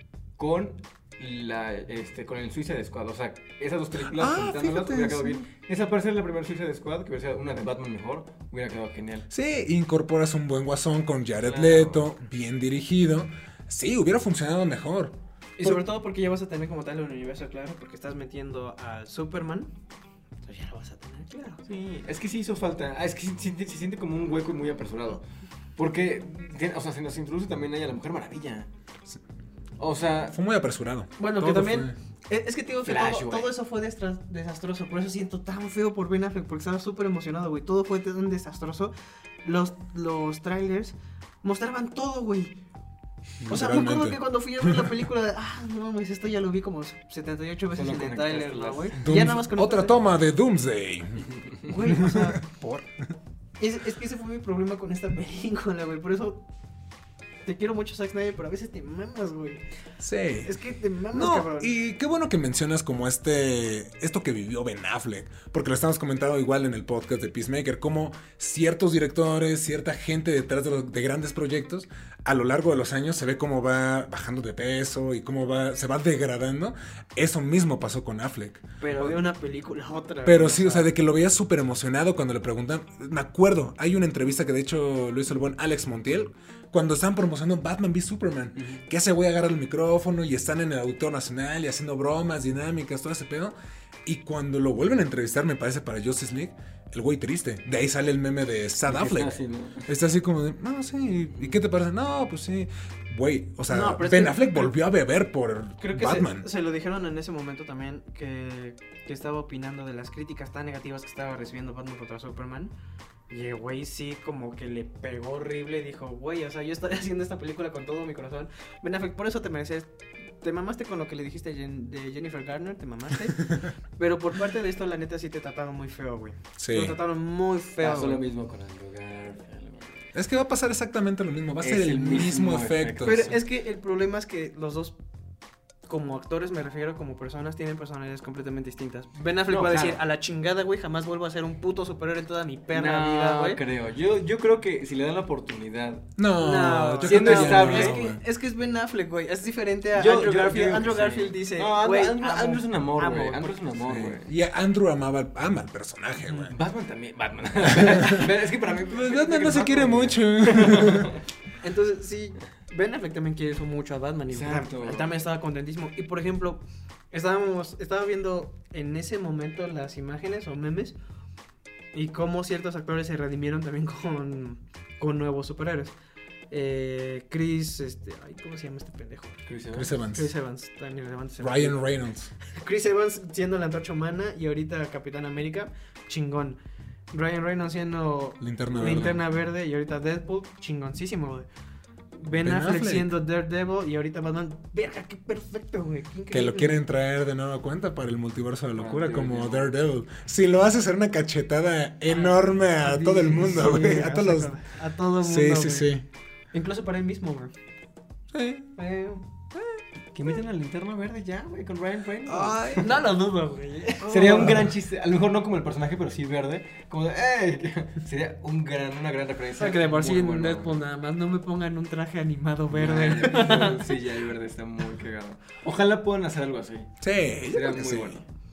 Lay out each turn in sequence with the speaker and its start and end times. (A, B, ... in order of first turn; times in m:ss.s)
0:00.4-0:09.3 A
0:04.0-0:05.4 B
0:09.3-0:15.8 B
0:11.4-0:12.1 A
0:15.6-0:19.7 C
0:20.4-0:21.6 C
0:21.6-0:25.2 A
0:25.8-0:28.7 A
0:29.8-0:30.4 A
0:30.3-0:31.9 B
0:31.2-0:38.9 C
0:32.8-0:33.5 A
0:39.4-0:42.6 C
0:43.4-0:44.9 B
0:43.5-0:50.0 C
0:47.7-0:49.0 A
0:49.0-0:51.3 B
0:51.7-0:52.4 C
0:51.8-0:52.9 B
0:53.6-0:56.4 C
0:57.4-0:59.6 C
1:00.0-1:00.5 B
1:00.4-1:01.7 C
1:01.1-1:19.2 B
1:18.8-1:20.9 C
1:20.2-1:33.5 B
1:28.6-1:28.8 A
1:34.0-1:46.4 B
1:38.8-1:39.9 A
1:43.7-1:44.7 C
1:45.8-1:52.7 C
1:53.3-2:08.2 C
2:06.6-2:07.0 B
2:07.8-2:10.0 A
2:10.1-2:13.3 B
2:11.6-2:13.4 A
2:13.0-2:15.0 C
2:15.9-2:23.6 C
2:19.5-2:20.0 A
2:22.7-2:26.1 A
2:26.2-2:28.2 B
2:26.4-2:33.7 C
2:27.0-2:28.0 A
2:29.9-2:34.3 A
2:33.8-2:36.5 B
2:36.4-2:41.2 A
2:37.6-2:38.3 B
2:38.9-2:41.1 B
2:41.6-2:51.0 C
2:44.3-2:45.2 A
2:51.9-2:55.9 C
2:56.5-2:59.4 C
2:59.5-3:00.0 A
2:59.7-3:00.3 B
3:00.0-3:01.8 C
3:01.4-3:02.3 B
3:02.5-3:06.6 C
3:07.1-3:11.5 C
3:08.4-3:09.2 B
3:12.2-3:16.8 C
3:12.3-3:13.1 B
3:16.3-3:24.5 B
3:18.8-3:19.7 A
3:22.1-3:25.9 C
3:25.2-3:26.0 B
3:26.5-3:27.5 C
3:28.3-3:28.7 B
3:28.8-3:29.3 C
3:30.1-3:32.9 A
3:32.2-3:32.9 B
3:32.7-3:34.7 C
3:34.0-3:40.8 A
3:39.6-3:44.0 C
3:42.7-3:48.2 A
3:47.0-3:48.2 B